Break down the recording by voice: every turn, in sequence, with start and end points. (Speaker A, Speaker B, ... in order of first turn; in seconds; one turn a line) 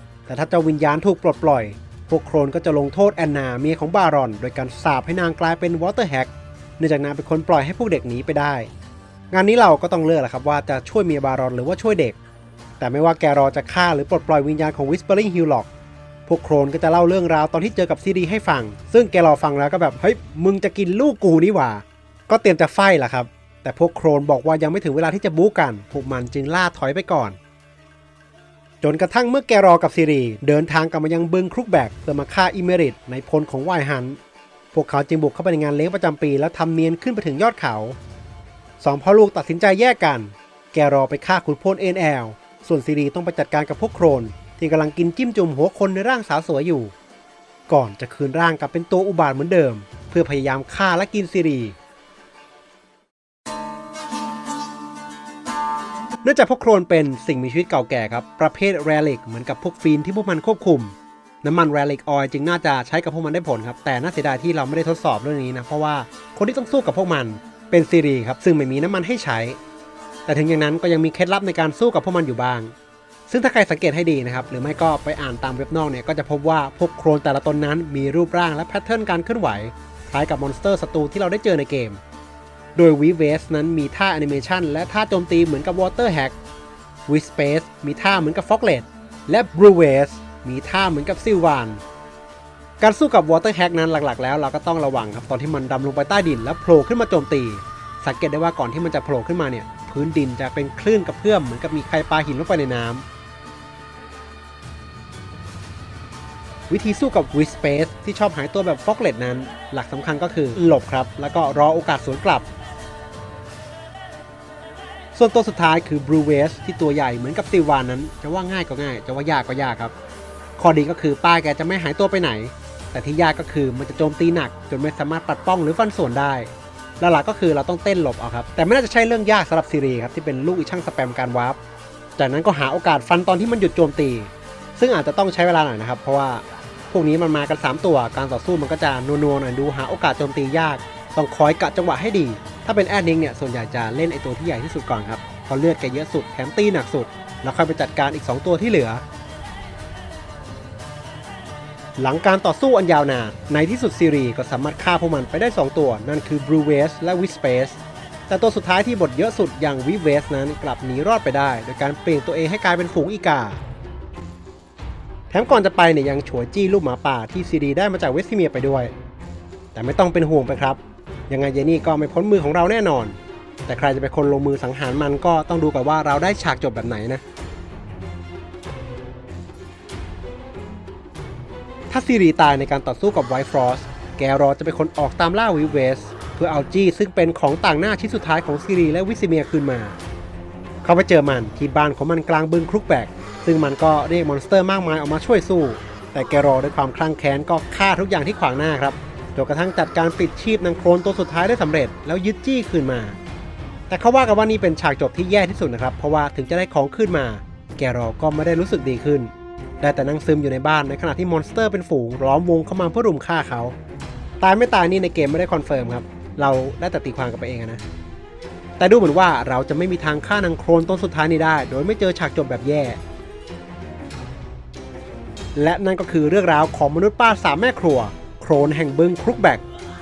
Speaker A: 0.3-8.7
Speaker A: 9.3-12.2
Speaker A: 12.8-15.7
Speaker A: 16.3-27.4
Speaker A: 28.8-34.2
Speaker A: 34.7-38.0
Speaker A: 38.8-46.9
Speaker A: 47.7-51.8
Speaker A: 56.2-69.6
Speaker A: 70.3-72.7
Speaker A: 73.3-82.0
Speaker A: 82.8-86.4
Speaker A: 87.1-91.8
Speaker A: 92.8-103.0
Speaker A: 106.7-112.5
Speaker A: 115.1-119.9
Speaker A: 120.6-131.6
Speaker A: 132.2-149.0
Speaker A: 152.0-163.6
Speaker A: 165.3-168.9
Speaker A: 169.8-177.2
Speaker A: 181.9-190.0
Speaker A: 190.8-203.2
Speaker A: 203.9-213.8
Speaker A: 214.4-217.8
Speaker A: 218.8-223.0
Speaker A: 225.6-229.6